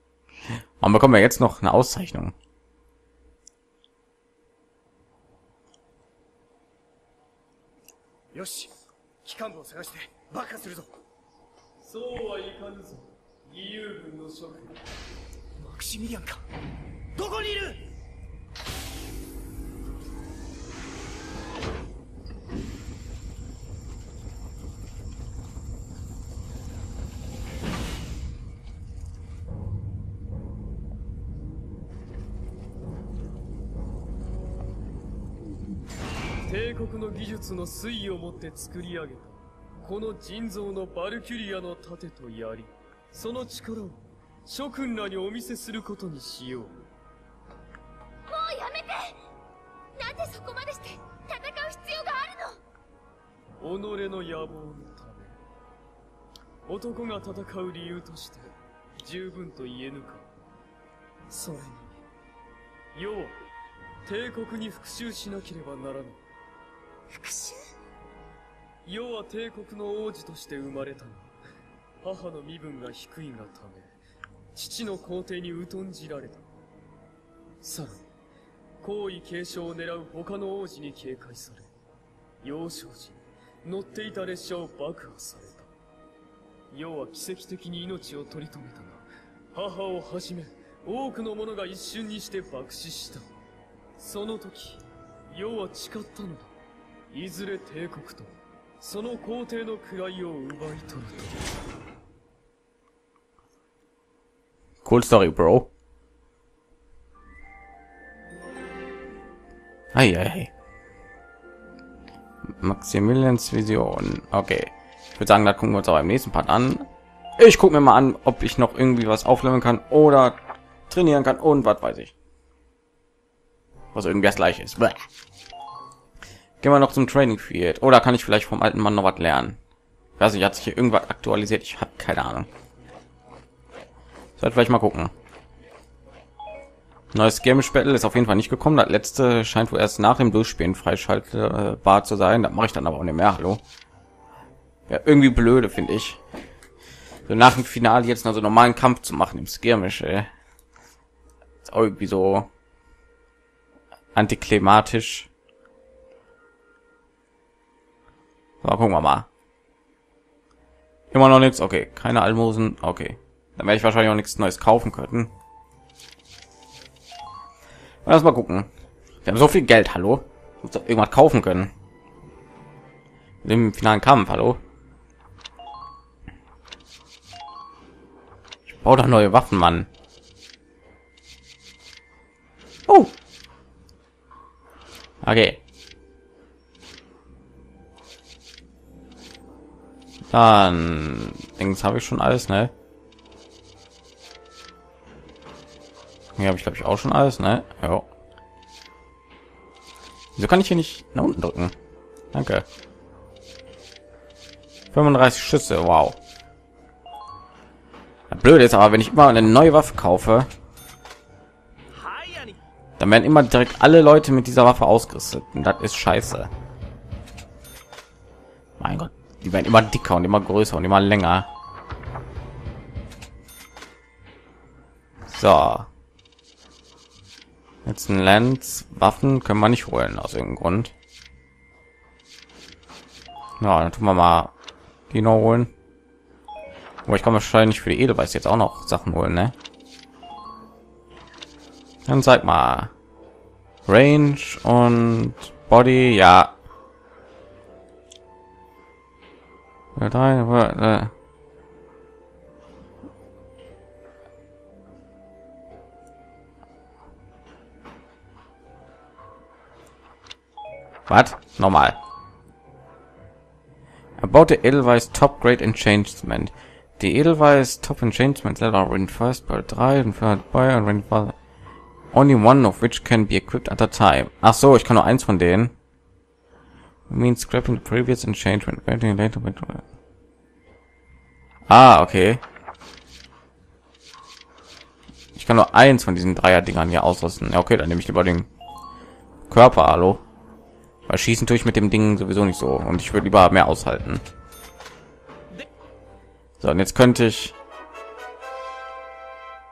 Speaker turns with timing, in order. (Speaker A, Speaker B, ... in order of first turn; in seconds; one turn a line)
Speaker A: 0.8-2.3
Speaker B: 8.3-8.7
Speaker B: 9.2-10.9
Speaker C: 11.8-14.8
Speaker B: 15.6-16.4
Speaker B: 17.1-17.9
Speaker C: 36.4-46.8
Speaker D: 48.3-49.2
Speaker D: 50.0-52.6
Speaker C: 53.6-55.4
Speaker C: 56.6-60.3
Speaker C: 61.3-62.0
Speaker C: 62.9-63.4
Speaker C: 64.0-66.2
Speaker D: 67.1-67.6
Speaker C: 68.8-71.3
Speaker C: 72.0-73.9
Speaker C: 74.5-76.5
Speaker C: 77.6-78.1
Speaker C: 78.8-81.7
Speaker C: 82.4-85.7
Speaker C: 86.7-93.3
Speaker C: 94.0-96.5
Speaker C: 97.1-101.4
Speaker A: 104.8-105.7
Speaker A: 109.9-110.5
Speaker A: 112.6-116.9
Speaker A: 117.4-122.1
Speaker A: 123.9-125.0
Speaker A: 126.6-129.6
Speaker A: 130.2-132.5
Speaker A: 134.4-135.1
Speaker A: 137.1-143.6
Speaker A: 144.9-146.2
Speaker A: 147.3-150.3
Speaker A: 151.6-152.5
Speaker A: 154.1-155.3
Speaker A: 158.6-159.3
Speaker A: 161.1-165.3
Speaker A: 168.1-168.7
Speaker A: 169.2-171.7
Speaker A: 173.4-174.6
Speaker A: 178.7-179.9
Speaker A: 182.9-183.1
Speaker A: 185.2-185.6
Speaker A: 190.3-192.7
Speaker A: 196.4-198.1
Speaker A: 200.4-201.7
Speaker A: 202.3-202.6
Speaker A: 204.9-206.2
Speaker A: 208.3-210.5
Speaker B: 212.2-212.4
Speaker A: 213.0-216.5
Speaker A: 218.8-221.5
Speaker A: 225.3-225.9
Speaker A: 227.8-230.9
Speaker A: 233.6-234.5
Speaker A: 235.1-235.7
Speaker A: 237.1-239.6
Speaker A: 242.1-242.9
Speaker A: 243.9-246.5
Speaker A: 249.9-251.1
Speaker A: 261.1-262.0
Speaker A: 264.2-271.4
Speaker A: 272.1-275.7
Speaker A: 277.1-279.8
Speaker A: 281.7-282.4
Speaker A: 285.4-288.5
Speaker A: 289.5-290.2
Speaker A: 291.1-294.2
Speaker A: 296.6-297.6